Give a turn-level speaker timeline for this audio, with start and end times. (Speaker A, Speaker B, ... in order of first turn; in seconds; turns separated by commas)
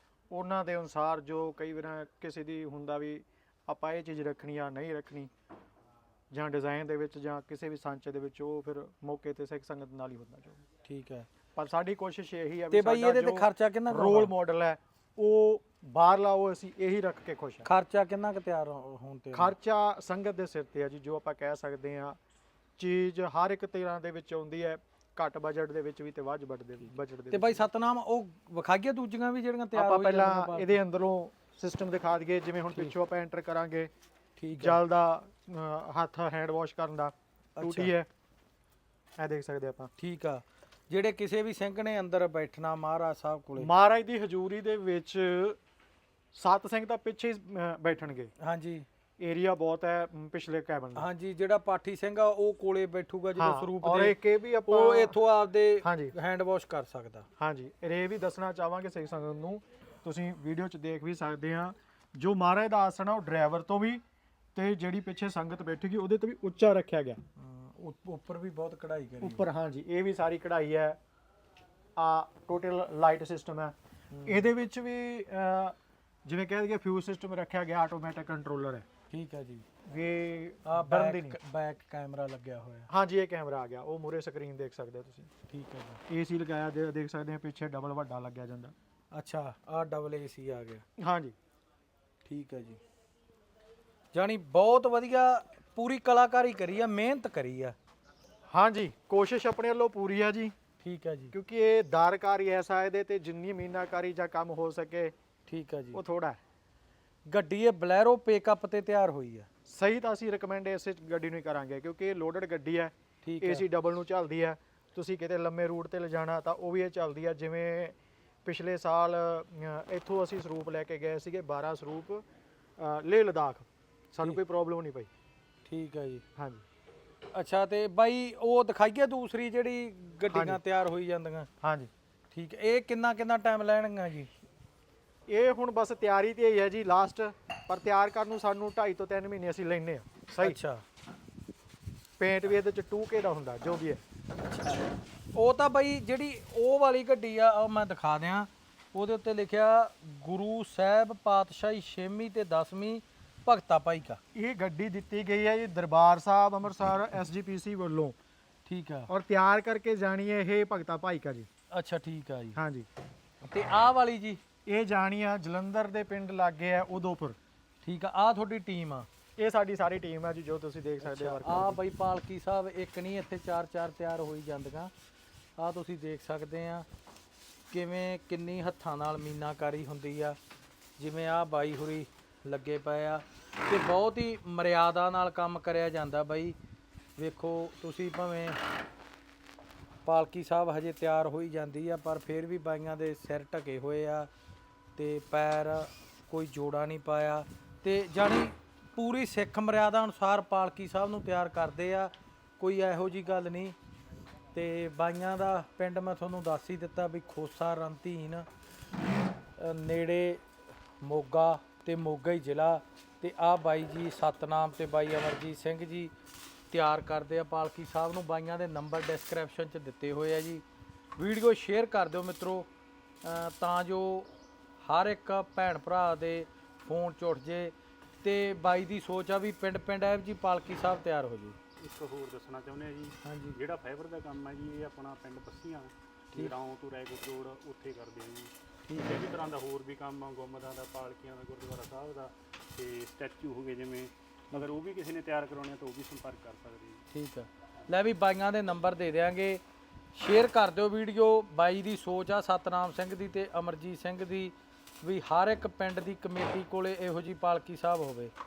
Speaker A: 0.3-5.3, Speaker A: 6.3-10.6, Speaker B: 10.8-11.3, Speaker A: 11.6-17.7, Speaker B: 12.7-14.3, Speaker B: 17.7-19.5, Speaker A: 19.3-22.2, Speaker A: 22.8-27.6, Speaker B: 27.3-30.8, Speaker A: 29.7-33.9, Speaker B: 34.4-34.8, Speaker A: 34.6-38.1, Speaker B: 37.6-37.9, Speaker A: 39.2-39.9, Speaker B: 40.0-43.7, Speaker A: 43.6-45.6, Speaker A: 46.3-48.3, Speaker B: 48.4-48.9, Speaker A: 49.2-51.1, Speaker B: 51.0-57.3, Speaker A: 53.4-55.2, Speaker A: 55.8-56.1, Speaker A: 57.4-64.0, Speaker A: 64.5-67.2, Speaker B: 67.4-69.5, Speaker A: 69.2-71.0, Speaker A: 72.0-73.7, Speaker B: 74.1-74.5, Speaker A: 74.2-78.8, Speaker B: 79.1-79.7, Speaker A: 79.9-81.4, Speaker B: 80.7-82.9, Speaker A: 82.9-85.3, Speaker B: 85.5-86.0, Speaker A: 86.1-88.7, Speaker B: 89.1-90.8, Speaker A: 91.0-91.3, Speaker B: 92.2-92.8, Speaker B: 94.1-97.8, Speaker A: 98.5-100.5, Speaker B: 100.8-101.3, Speaker A: 101.3-105.1, Speaker B: 105.5-106.0, Speaker A: 105.9-106.4, Speaker B: 107.3-109.5, Speaker A: 109.7-122.2, Speaker B: 113.2-113.6, Speaker A: 122.8-125.1, Speaker B: 125.7-126.2, Speaker A: 126.4-126.6, Speaker B: 127.3-131.5, Speaker A: 130.3-130.6, Speaker A: 131.6-131.9, Speaker B: 132.3-134.3, Speaker A: 135.3-140.6, Speaker B: 140.4-140.8, Speaker A: 142.2-144.0, Speaker B: 144.4-144.8, Speaker B: 145.3-154.2, Speaker A: 154.3-158.2, Speaker B: 158.7-159.1, Speaker A: 159.1-161.5, Speaker B: 161.7-162.6, Speaker A: 162.6-162.9, Speaker B: 163.4-164.4, Speaker A: 164.7-167.4, Speaker B: 167.8-169.1, Speaker A: 169.4-171.8, Speaker B: 171.0-174.9, Speaker B: 175.6-176.9, Speaker B: 177.7-180.4, Speaker B: 181.0-186.6, Speaker B: 187.2-188.6, Speaker B: 190.1-194.3, Speaker B: 195.0-203.8, Speaker B: 204.5-208.5, Speaker B: 209.6-210.4, Speaker B: 211.0-216.1, Speaker B: 216.7-220.6, Speaker B: 221.2-222.7, Speaker B: 223.2-224.3, Speaker B: 224.8-231.6, Speaker C: 231.8-247.1, Speaker B: 233.2-233.6, Speaker B: 238.9-239.2, Speaker B: 247.1-249.6, Speaker B: 250.1-258.3